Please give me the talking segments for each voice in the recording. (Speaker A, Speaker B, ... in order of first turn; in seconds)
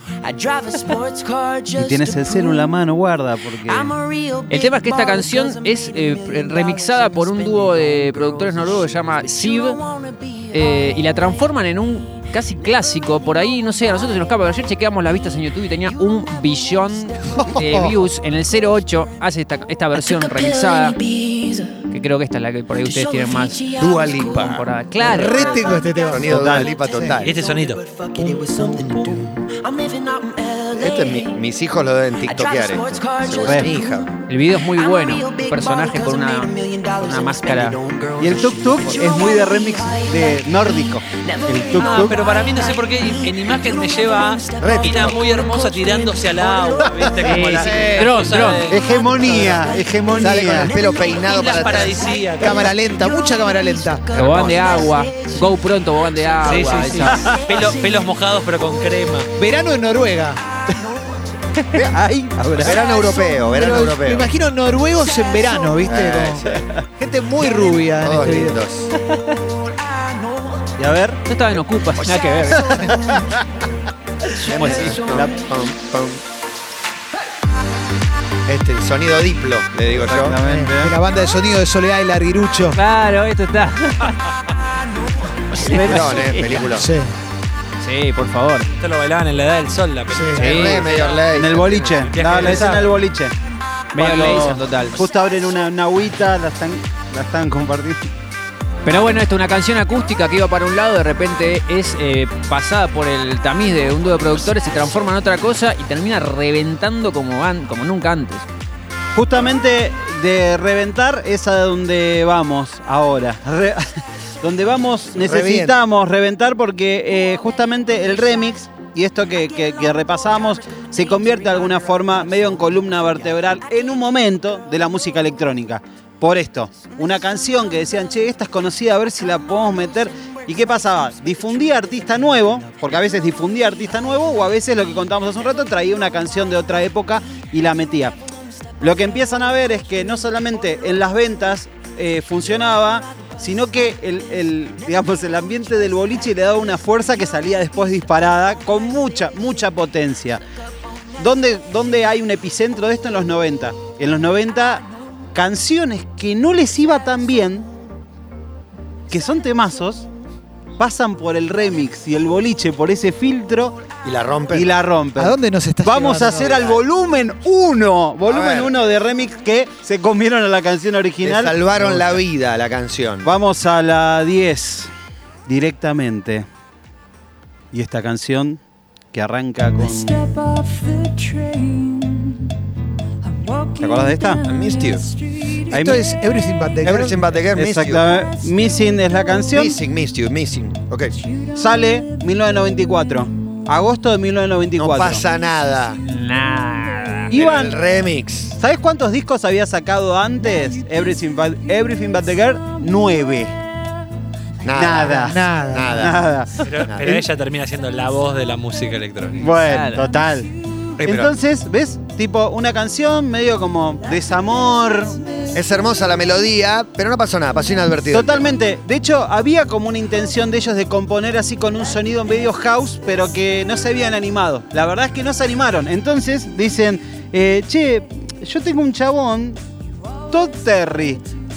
Speaker A: 0.2-2.8, 3.7-11.1, 19.9-21.9, 22.8-24.7, 25.2-31.4, 32.2-47.9, 48.7-58.7, 60.7-61.0, 62.7-63.5, 65.1-65.7, 69.5-70.7, 72.5-73.2, 74.4-75.5, 180.8-181.7
Speaker B: 1.8-4.0, 26.2-26.7, 38.2-42.2, 48.7-50.7, 61.7-62.8, 70.8-71.2, 72.6-73.3, 74.6-75.3, 80.0-81.0, 91.3-93.3, 93.9-98.0, 109.2-138.2, 138.8-150.4, 151.2-157.7, 159.1-160.1, 160.8-163.8, 164.5-172.2, 173.2-174.9, 175.5-176.5, 177.7-178.6, 179.1-180.3, 183.8-184.4, 185.7-186.1, 187.6-189.8, 191.6-195.2, 197.3-197.8, 198.6-203.5, 204.7-206.6, 209.4-210.5, 211.0-215.2, 218.1-229.6, 230.3-231.2
Speaker C: 4.5-9.8, 10.5-21.0, 21.9-23.6, 24.2-25.5, 34.3-37.8, 47.2-48.7, 54.1-57.3, 71.3-72.9, 82.7-84.2, 85.5-86.7, 87.8-88.7, 90.4-90.8, 94.0-95.0, 98.8-108.5, 196.0-197.3, 209.6-210.1
Speaker D: 17.6-17.9, 25.0-27.2, 47.6-48.1, 52.4-54.1, 59.4-60.4, 63.5-66.4, 67.0-68.6, 80.4-82.8, 86.7-87.1, 90.1-90.5, 165.2-166.6, 185.7-187.2, 205.1-206.0
Speaker E: 23.8-24.5, 26.1-27.4, 30.7-34.1, 44.6-45.2, 50.2-52.1, 54.2-54.7, 62.6-64.3, 65.8-66.7, 68.0-68.9, 72.0-72.4, 74.4-76.2, 78.5-80.4, 85.6-86.9, 90.4-92.1, 115.2-115.8, 164.0-164.7, 168.3-168.7, 171.2-173.3, 184.4-185.1, 186.8-188.1, 189.5-191.1, 194.8-196.0, 197.3-198.6, 204.6-206.2, 206.8-207.3, 211.0-211.3, 215.5-218.5
Speaker F: 27.2-27.8, 41.8-49.0, 51.2-52.7, 56.4-59.3, 88.8-91.2, 92.0-92.9, 206.6-209.6